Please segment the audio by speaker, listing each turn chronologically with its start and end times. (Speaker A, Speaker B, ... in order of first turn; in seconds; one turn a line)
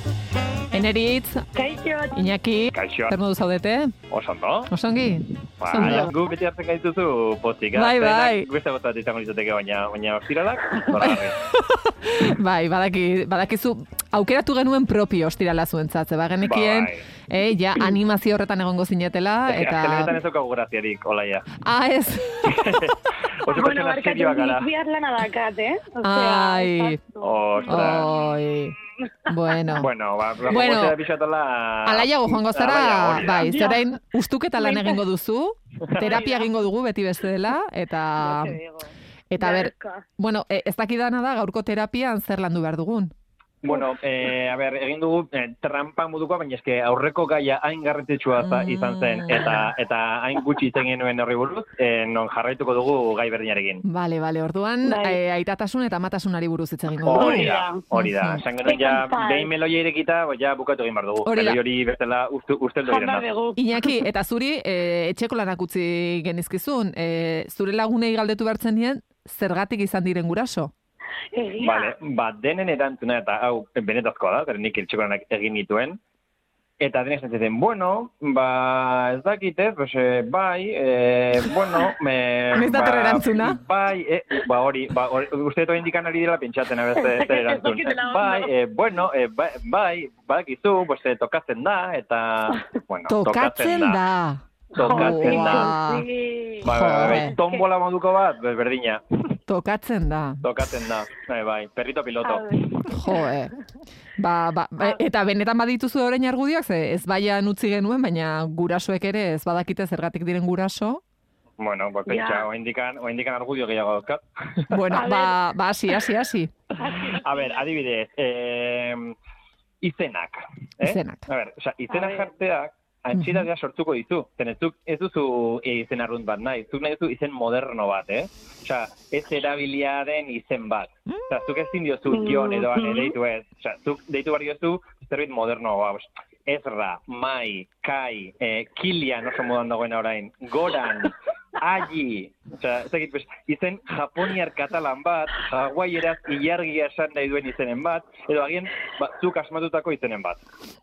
Speaker A: 0.7-1.4
Speaker B: 1.5-2.3
Speaker A: 2.1-3.9
Speaker C: 2.7-3.1
Speaker C: 4.1-4.7
Speaker A: 4.7-6.1
Speaker C: 5.6-11.4
Speaker A: 7.7-8.4
Speaker A: 10.9-20.1
Speaker C: 16.4-17.0
Speaker C: 19.5-21.6
Speaker A: 21.6-22.8
Speaker C: 22.4-24.7
Speaker B: 23.5-28.3
Speaker A: 26.0-27.0
Speaker C: 27.2-28.1
Speaker A: 27.7-28.8
Speaker B: 29.0-29.6
Speaker A: 29.3-29.9
Speaker C: 29.8-33.5
Speaker A: 30.5-30.9
Speaker A: 31.8-38.5
Speaker B: 33.4-33.8
Speaker B: 34.6-35.0
Speaker C: 35.8-36.2
Speaker B: 36.0-36.5
Speaker B: 38.2-40.0
Speaker A: 39.3-43.1
Speaker C: 43.6-53.8
Speaker A: 48.4-49.7
Speaker A: 53.8-58.4
Speaker B: 54.8-55.2
Speaker C: 57.0-63.2
Speaker B: 57.0-57.8
Speaker B: 58.6-59.5
Speaker A: 61.2-61.6
Speaker B: 62.9-63.9
Speaker A: 63.6-70.7
Speaker B: 71.3-71.9
Speaker C: 71.6-76.0
Speaker C: 76.8-94.0
Speaker A: 82.5-83.6
Speaker B: 87.0-88.5
Speaker A: 93.1-96.0
Speaker B: 94.7-97.6
Speaker C: 94.7-95.7
Speaker C: 96.6-99.0
Speaker A: 96.6-97.3
Speaker A: 99.5-100.4
Speaker C: 100.4-102.5
Speaker B: 102.2-103.3
Speaker A: 102.9-103.5
Speaker A: 104.2-111.0
Speaker C: 111.6-114.9
Speaker B: 112.1-112.5
Speaker A: 114.7-116.5
Speaker B: 114.9-115.4
Speaker B: 116.7-117.8
Speaker C: 117.2-119.2
Speaker C: 119.8-150.4
Speaker A: 120.8-121.2
Speaker B: 121.9-122.3
Speaker A: 123.1-123.5
Speaker B: 132.1-133.1